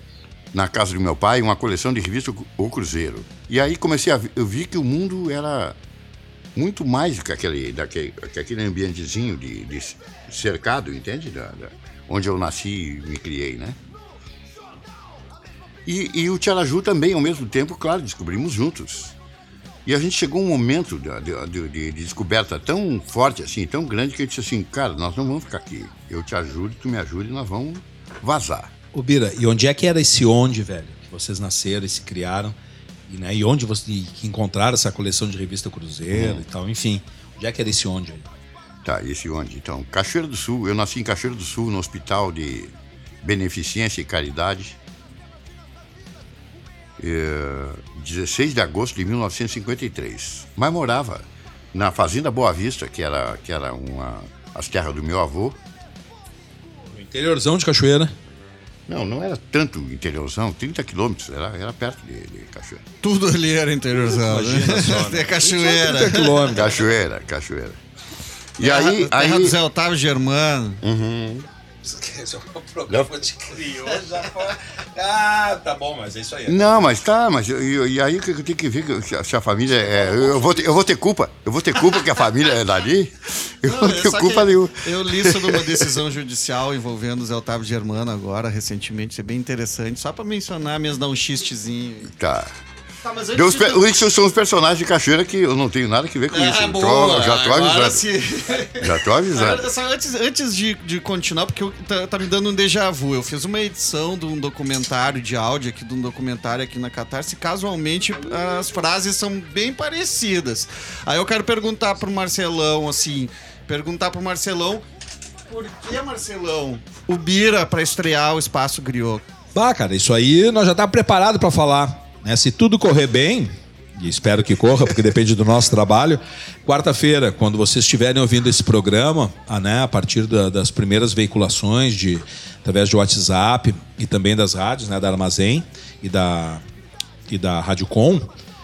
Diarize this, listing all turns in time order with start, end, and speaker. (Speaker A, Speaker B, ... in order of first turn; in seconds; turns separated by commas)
Speaker A: 0.5-5.8, Speaker A: 6.5-13.8, Speaker A: 15.8-19.1, Speaker A: 19.9-28.7, Speaker B: 28.9-32.5, Speaker B: 33.1-38.2, Speaker A: 36.1-36.4, Speaker A: 38.8-44.8, Speaker A: 47.0-55.6, Speaker B: 56.9-58.1, Speaker A: 58.9-62.8, Speaker C: 63.0-66.3, Speaker B: 63.9-66.9, Speaker A: 66.5-67.8, Speaker A: 68.6-69.5, Speaker C: 68.6-70.8, Speaker A: 70.8-71.5, Speaker B: 71.8-76.7, Speaker A: 76.5-85.9, Speaker B: 79.8-80.7, Speaker C: 83.6-92.1, Speaker A: 92.1-92.5, Speaker C: 93.0-93.8, Speaker A: 93.3-98.0, Speaker C: 96.3-114.8, Speaker A: 98.8-99.6, Speaker C: 115.5-119.2, Speaker B: 119.5-136.6, Speaker B: 137.3-138.3